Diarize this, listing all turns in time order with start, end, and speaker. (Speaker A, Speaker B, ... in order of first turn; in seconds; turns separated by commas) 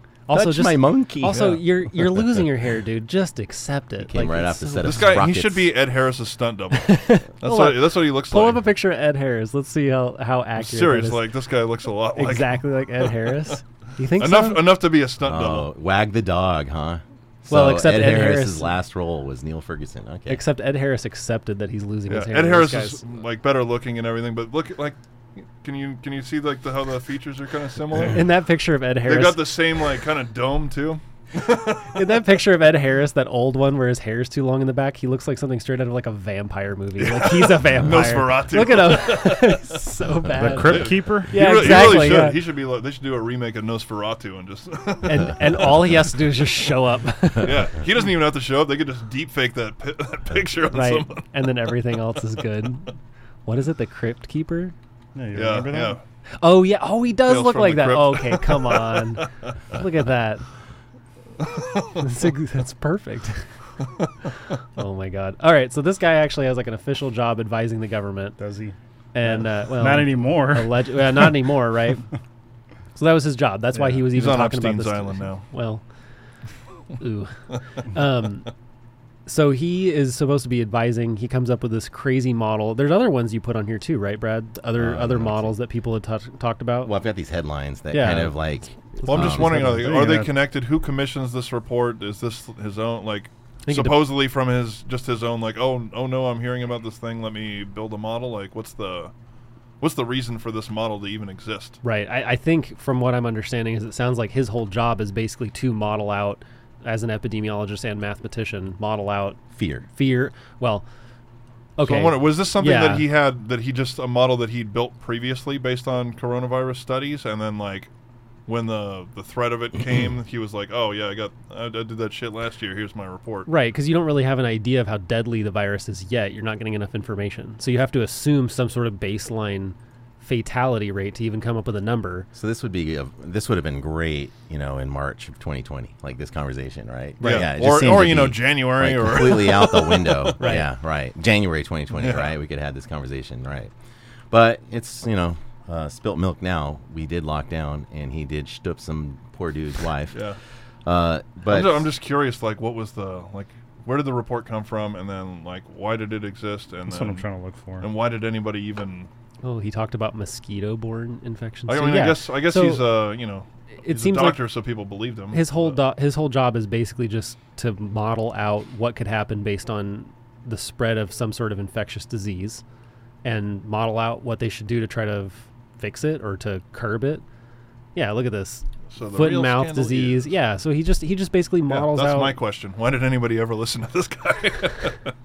Speaker A: 0.3-5.2, Speaker B: 0.3-2.4, Speaker B: 4.0-5.7, Speaker C: 4.8-8.6, Speaker A: 6.8-11.2, Speaker C: 10.6-13.5, Speaker A: 12.2-14.8, Speaker C: 14.2-15.7, Speaker B: 15.2-20.4, Speaker A: 17.5-18.7, Speaker A: 20.3-23.0, Speaker C: 22.1-28.3, Speaker A: 28.0-29.8, Speaker C: 29.0-32.0, Speaker A: 31.9-42.4, Speaker C: 37.0-39.7, Speaker D: 40.3-42.2, Speaker C: 40.5-46.0, Speaker A: 45.0-47.7, Speaker C: 47.4-51.3, Speaker A: 50.7-52.9, Speaker A: 53.5-54.8, Speaker D: 55.1-56.0, Speaker C: 55.3-56.0, Speaker A: 56.4-60.5, Speaker C: 57.3-59.5, Speaker C: 61.4-62.0, Speaker A: 62.0-63.4, Speaker A: 64.8-68.4, Speaker D: 68.4-71.4, Speaker A: 69.1-72.0, Speaker A: 73.0-75.8, Speaker C: 74.1-75.5, Speaker A: 77.0-77.3, Speaker A: 77.8-78.5, Speaker A: 79.3-86.9, Speaker B: 84.8-85.5, Speaker B: 86.8-89.5, Speaker A: 87.9-88.4, Speaker A: 89.0-90.0, Speaker C: 89.0-99.1, Speaker D: 89.5-90.3, Speaker A: 93.7-94.1, Speaker C: 99.8-101.8, Speaker A: 101.8-110.8, Speaker B: 109.5-109.9, Speaker A: 111.8-113.1, Speaker C: 111.8-117.9, Speaker C: 118.5-123.5, Speaker A: 123.5-132.3, Speaker B: 132.3-143.7, Speaker A: 137.2-137.5, Speaker C: 137.2-140.3, Speaker A: 140.4-140.7, Speaker C: 142.0-142.3, Speaker B: 144.3-150.2, Speaker C: 150.1-150.4, Speaker B: 150.8-151.9, Speaker C: 151.5-157.2, Speaker D: 156.9-157.9, Speaker C: 157.8-159.1, Speaker A: 159.4-162.9, Speaker C: 161.7-165.8, Speaker A: 163.8-164.4, Speaker A: 165.3-172.6, Speaker A: 173.2-177.2, Speaker A: 177.9-182.4, Speaker C: 178.9-180.3, Speaker C: 181.7-185.1